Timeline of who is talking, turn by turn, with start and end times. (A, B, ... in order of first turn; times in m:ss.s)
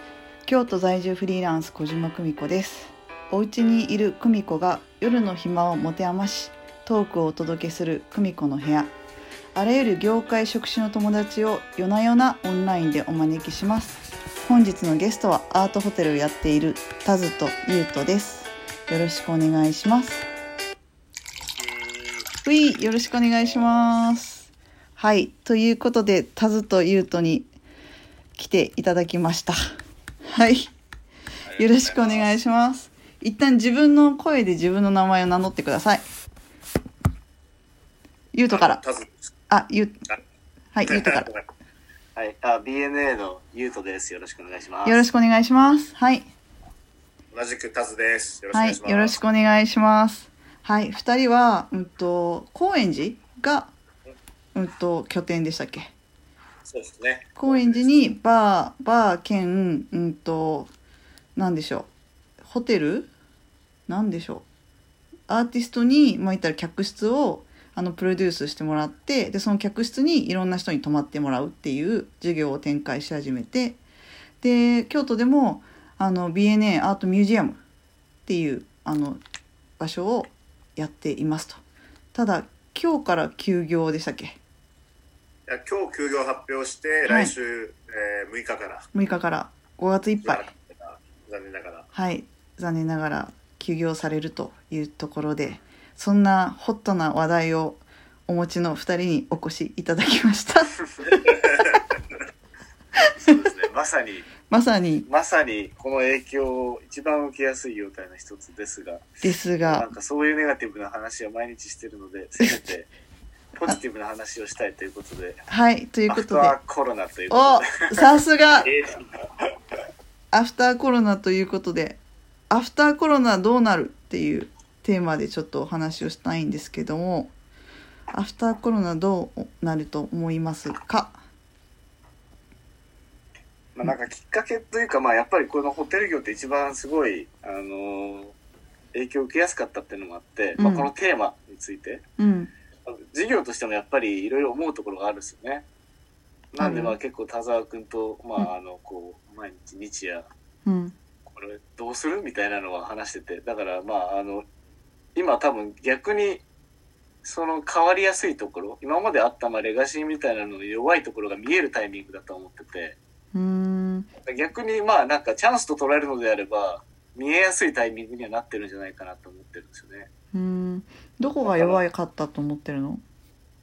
0:00.4-0:08.9 A
0:09.5-0:20.2 A
0:21.5-0:22.2 B
0:22.4-0:27.5 A
0:28.4-0:29.6 A
0:30.3-0:30.7 A
0:31.5-0:32.3 B
0:31.6-0:36.0 A
0:38.3-0:38.8 A
0:38.5-0:39.3 B
0:39.5-0:40.0 A
0:40.7-0:41.3 A
0:40.9-0:41.3 B
0:42.1-0:45.1 C
0:44.8-0:46.3 A
0:47.3-0:49.2 B
0:48.5-0:53.7 A
0:54.5-0:55.9 A
0:56.6-0:57.9 B
0:57.4-1:00.7 A
1:01.4-1:01.9 A
1:02.4-1:03.1 A
1:03.9-1:04.4 A
1:05.3-1:13.8 A
1:14.4-1:17.6 A
1:18.2-1:19.2 A
1:19.8-1:21.6 A
1:22.1-1:24.4 A
1:25.5-1:28.9 B
1:27.0-1:27.3 A
1:28.9-1:30.5 A
1:30.2-1:31.9 B
1:31.9-1:41.3 A
1:41.3-1:41.8 B
1:43.2-1:44.3 C
1:44.5-1:45.1 A
1:45.0-1:49.1 C
1:49.2-1:49.9 A
1:49.6-1:52.9 C
1:53.6-1:55.4 C
1:55.5-1:56.6 A
1:56.1-1:58.0 C
1:57.3-1:58.7 A
1:58.6-1:58.9 B
2:00.3-2:02.0 A
2:02.5-2:07.3 A
2:08.1-2:11.2 A
2:13.7-2:18.3 C
2:18.9-2:22.0 C
2:20.6-2:20.9 A
2:22.2-2:22.5 A
2:22.9-2:25.6 C
2:26.5-2:30.3 C
2:26.6-2:27.0 A
2:30.6-2:30.9 A
2:31.3-2:34.4 C
2:35.1-2:36.4 C
2:37.2-2:43.0 C
2:43.3-2:44.1 A
2:44.2-2:50.1 C
2:50.3-2:53.0 A
2:51.4-2:51.8 C